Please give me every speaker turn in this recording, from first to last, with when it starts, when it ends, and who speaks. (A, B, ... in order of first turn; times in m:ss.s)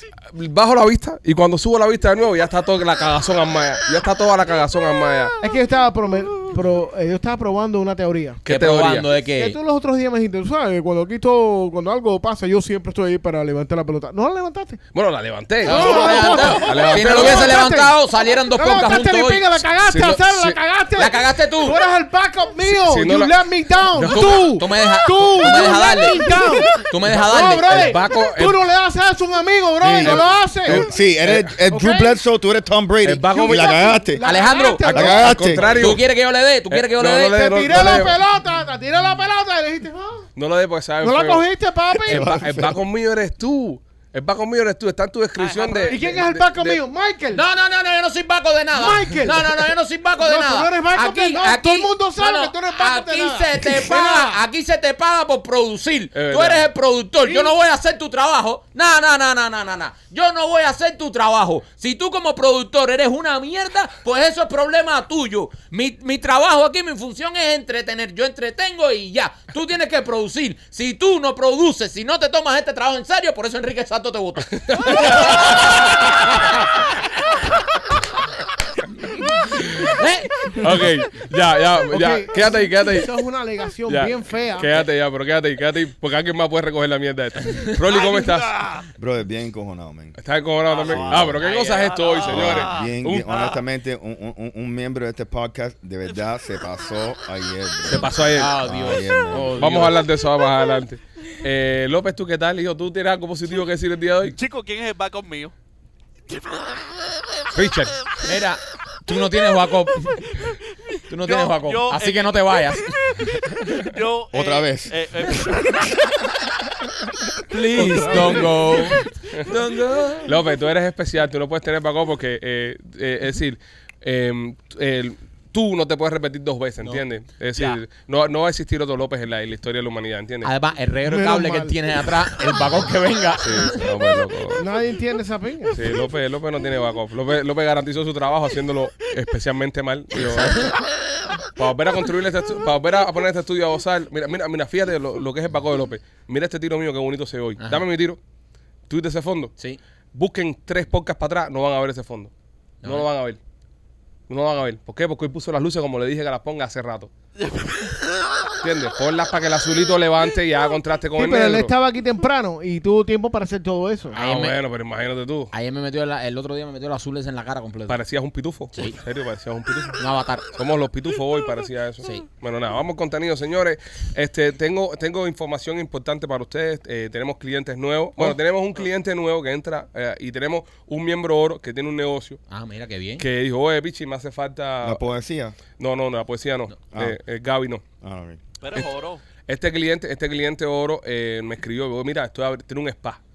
0:00.3-0:05.4 A
0:05.4-0:08.4 B
0:08.4-0:09.1 A
0:08.5-0:09.6 C
0:09.3-0:14.8 B
0:14.9-0:17.7 A
0:15.6-0:30.9 B
0:15.6-0:19.5 C
0:19.8-0:20.6 A
0:21.0-0:21.8 C
0:22.6-0:24.4 A
0:24.0-0:28.0 C
0:27.7-0:28.6 A
0:29.8-0:36.0 D
0:30.0-0:31.6 A
0:31.7-0:32.2 B
0:33.0-0:34.0 A
0:33.4-0:35.8 B
0:34.2-0:35.1 C
0:34.8-0:36.1 A
0:35.7-0:37.5 C
0:36.7-0:38.2 A
0:37.3-0:40.3 B
0:40.4-0:41.5 A
0:41.0-0:42.5 B
0:42.0-0:42.8 D
0:42.1-0:46.8 A
0:45.4-0:46.0 C
0:45.8-0:47.4 B
0:47.3-1:15.9 C
0:48.7-0:54.4 B
0:56.1-0:56.7 A
1:14.6-1:15.6 A
1:19.6-1:19.9 A
1:19.7-1:20.6 C
1:20.6-1:23.2 A
1:21.9-1:24.9 B
1:23.9-1:28.6 A
1:27.9-1:28.8 E
1:29.0-1:30.2 D
1:30.2-1:33.5 A
1:30.7-1:33.5 E
1:30.9-1:31.4 D
1:32.2-1:39.9 D
1:37.8-1:38.6 A
1:38.3-1:40.0 C
1:39.4-1:44.4 A
1:44.3-1:45.5 E
1:46.3-1:46.7 E
1:47.5-1:48.0 A
1:48.2-1:50.4 C
1:51.1-1:53.3 C
1:51.2-1:52.5 E
1:53.8-1:55.9 E
1:54.3-1:55.0 D
1:57.5-2:00.4 C
1:57.9-1:58.6 A
2:00.2-2:10.5 A
2:07.6-2:07.8 C
2:10.4-2:13.9 C
2:11.0-2:11.8 B
2:13.4-2:14.6 A
2:14.6-2:15.8 B
2:15.7-2:20.8 A
2:20.2-2:20.8 C
2:21.6-2:28.2 A
2:27.6-2:27.8 C
2:28.9-2:29.5 A
2:30.2-2:32.3 A
2:32.8-2:33.1 C
2:32.8-2:33.4 A
2:34.3-2:37.1 A
2:38.6-2:41.7 A
2:41.2-2:44.2 B
2:44.2-2:44.6 C
2:44.2-2:45.5 A
2:45.5-2:48.0 C
2:47.9-2:50.0 A
2:50.0-2:50.5 C
2:50.6-3:02.4 A
3:02.5-3:03.2 C
3:03.2-3:05.0 A
3:04.8-3:05.6 D
3:05.8-3:07.8 A
3:08.0-3:08.4 D
3:08.6-3:09.2 E
3:09.4-3:13.2 A